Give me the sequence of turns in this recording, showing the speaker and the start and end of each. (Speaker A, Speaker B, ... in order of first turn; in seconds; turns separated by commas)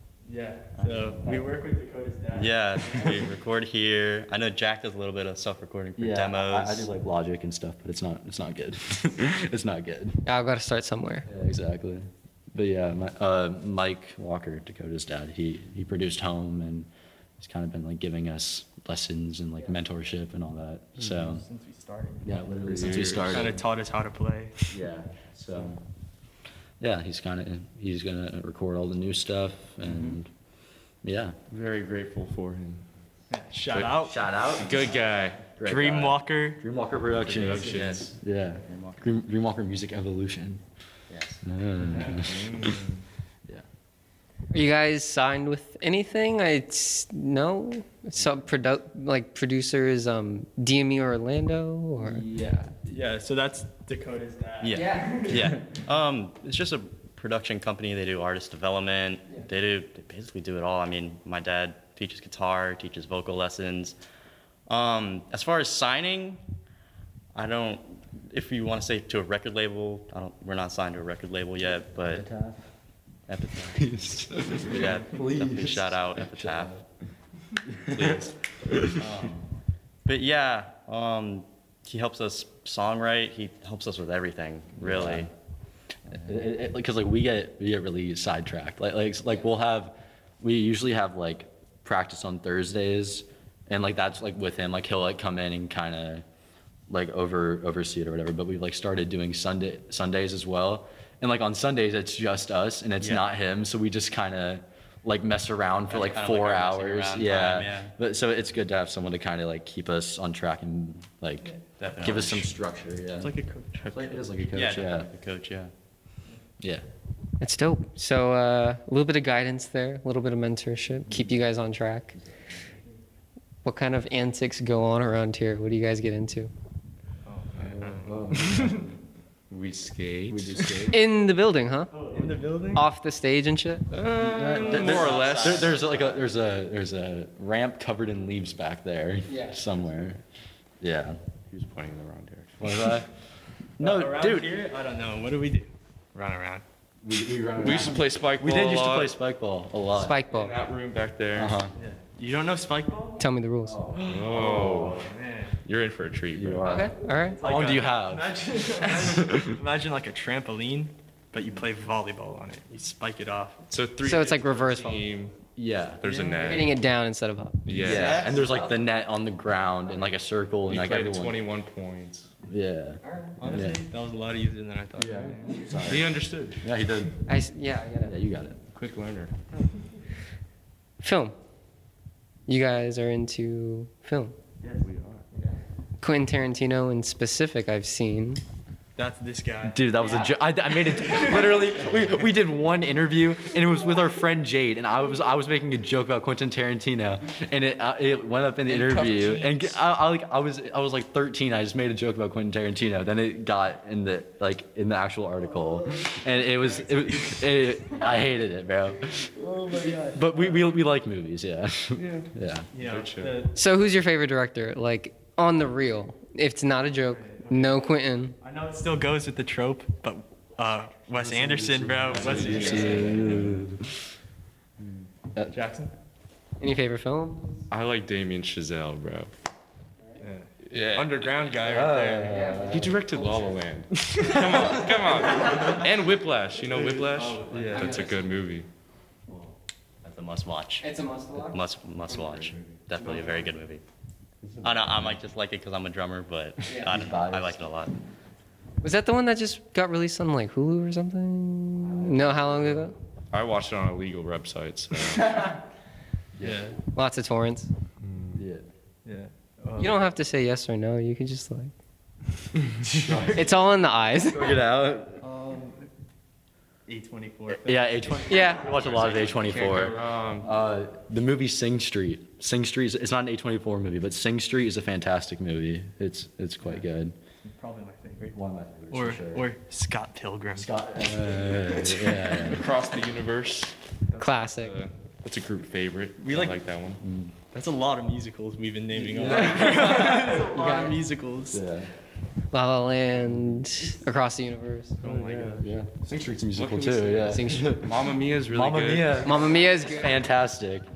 Speaker A: 0.2-3.2, Speaker B: 0.8-1.4, Speaker C: 2.3-6.9, Speaker B: 6.0-10.2, Speaker D: 10.2-11.3, Speaker B: 11.3-21.4, Speaker A: 21.1-24.8, Speaker B: 22.2-23.6, Speaker E: 22.6-23.6, Speaker B: 24.7-25.8, Speaker B: 26.8-30.3, Speaker E: 29.9-30.2, Speaker B: 31.0-31.4, Speaker E: 31.5-32.8, Speaker A: 33.3-34.2, Speaker E: 33.7-35.5, Speaker B: 34.0-34.9, Speaker B: 35.5-40.6, Speaker A: 35.6-36.6, Speaker E: 37.2-38.1, Speaker A: 37.3-37.8, Speaker C: 37.7-38.0, Speaker C: 38.6-39.0, Speaker C: 41.1-41.4, Speaker B: 41.4-42.7, Speaker A: 41.9-42.3, Speaker E: 42.0-42.8, Speaker D: 44.5-52.2, Speaker B: 52.0-52.9, Speaker A: 52.9-55.5, Speaker C: 54.6-64.0, Speaker D: 54.7-55.3, Speaker C: 64.7-66.4, Speaker C: 67.3-72.2, Speaker B: 72.0-72.6, Speaker C: 73.3-76.7, Speaker B: 73.8-76.8, Speaker B: 77.7-79.3, Speaker C: 79.0-79.3, Speaker C: 80.0-85.3, Speaker B: 84.8-85.3, Speaker B: 86.1-96.2, Speaker B: 96.9-113.3, Speaker C: 103.0-103.2, Speaker C: 105.9-107.9, Speaker C: 111.8-112.5, Speaker A: 113.2-114.2, Speaker B: 113.8-115.1, Speaker C: 114.5-115.7, Speaker D: 117.4-122.2, Speaker D: 123.6-126.5, Speaker A: 127.2-128.8, Speaker B: 127.6-129.0, Speaker E: 129.5-130.9, Speaker B: 130.3-131.0, Speaker D: 130.9-131.9, Speaker A: 131.9-132.8, Speaker D: 132.7-133.9, Speaker E: 133.9-135.7, Speaker B: 134.2-140.2, Speaker C: 134.5-136.2, Speaker D: 139.3-139.5, Speaker B: 140.8-141.2, Speaker E: 141.5-143.0, Speaker B: 142.6-143.1, Speaker B: 143.8-144.5, Speaker A: 143.8-146.6, Speaker B: 147.0-150.2, Speaker E: 147.6-149.1, Speaker D: 149.9-150.6, Speaker E: 150.3-151.6, Speaker B: 151.3-151.7, Speaker A: 151.8-153.2, Speaker D: 153.2-153.8, Speaker B: 153.6-155.1, Speaker E: 154.0-155.0, Speaker A: 154.1-155.6, Speaker E: 155.6-156.8, Speaker B: 156.3-158.3, Speaker D: 156.6-157.4, Speaker A: 157.3-163.6, Speaker B: 159.0-159.3, Speaker E: 163.7-165.3, Speaker D: 164.0-165.0, Speaker B: 165.6-166.0, Speaker E: 166.0-166.8, Speaker A: 166.0-166.5, Speaker D: 166.4-167.8, Speaker E: 167.6-168.3, Speaker B: 167.7-171.4, Speaker A: 167.7-168.6, Speaker E: 170.7-172.3, Speaker B: 172.4-173.8, Speaker D: 173.1-173.4, Speaker A: 173.4-175.7, Speaker B: 175.0-177.2, Speaker E: 175.8-176.6, Speaker D: 177.2-178.1, Speaker B: 178.0-178.6, Speaker E: 178.7-179.3, Speaker D: 181.0-181.3, Speaker D: 182.5-184.3, Speaker E: 184.8-185.2, Speaker D: 186.0-188.4, Speaker A: 188.9-190.3, Speaker B: 189.6-212.7, Speaker A: 190.9-191.5, Speaker E: 198.7-199.7, Speaker A: 205.6-208.0, Speaker A: 209.3-210.7, Speaker E: 211.9-213.5, Speaker A: 212.7-213.6, Speaker D: 213.5-218.3, Speaker A: 217.1-217.8, Speaker A: 218.4-223.5, Speaker B: 221.2-223.8, Speaker E: 222.1-223.7, Speaker B: 224.8-225.5, Speaker A: 225.5-225.9, Speaker D: 226.6-227.6, Speaker E: 227.7-229.3, Speaker A: 230.2-232.4, Speaker E: 230.7-231.5, Speaker B: 231.6-233.0, Speaker D: 232.2-233.6, Speaker E: 232.7-238.7, Speaker A: 237.1-238.0, Speaker B: 237.2-238.1, Speaker D: 237.7-238.1, Speaker C: 240.0-240.8, Speaker D: 240.8-241.6, Speaker C: 241.4-243.8, Speaker B: 244.4-245.2, Speaker C: 244.6-248.0, Speaker B: 246.8-247.6, Speaker D: 248.8-252.9, Speaker B: 251.8-252.8, Speaker E: 253.3-255.5, Speaker B: 256.4-256.7, Speaker A: 256.4-256.8, Speaker D: 256.9-257.7, Speaker E: 258.0-258.4, Speaker B: 258.3-258.6, Speaker A: 259.0-260.0, Speaker D: 259.8-261.7, Speaker B: 262.9-263.6, Speaker D: 263.3-264.5, Speaker B: 264.2-265.2, Speaker A: 265.2-265.8, Speaker A: 266.9-269.4, Speaker B: 267.5-277.1, Speaker D: 268.3-268.6, Speaker E: 268.9-270.5, Speaker A: 277.4-278.4, Speaker B: 278.3-279.5, Speaker A: 278.9-280.7, Speaker B: 280.5-282.7, Speaker A: 281.5-282.3, Speaker E: 282.4-287.0, Speaker D: 284.2-284.8, Speaker A: 286.2-286.6, Speaker B: 287.0-287.3, Speaker A: 287.5-291.6, Speaker B: 288.9-290.7, Speaker E: 289.3-289.8, Speaker D: 290.4-290.9, Speaker B: 291.5-291.9, Speaker D: 292.5-295.0, Speaker B: 293.2-293.7, Speaker A: 295.0-295.6, Speaker E: 295.0-295.7, Speaker B: 295.6-300.9, Speaker E: 296.5-299.2, Speaker D: 297.2-297.8, Speaker D: 299.2-300.2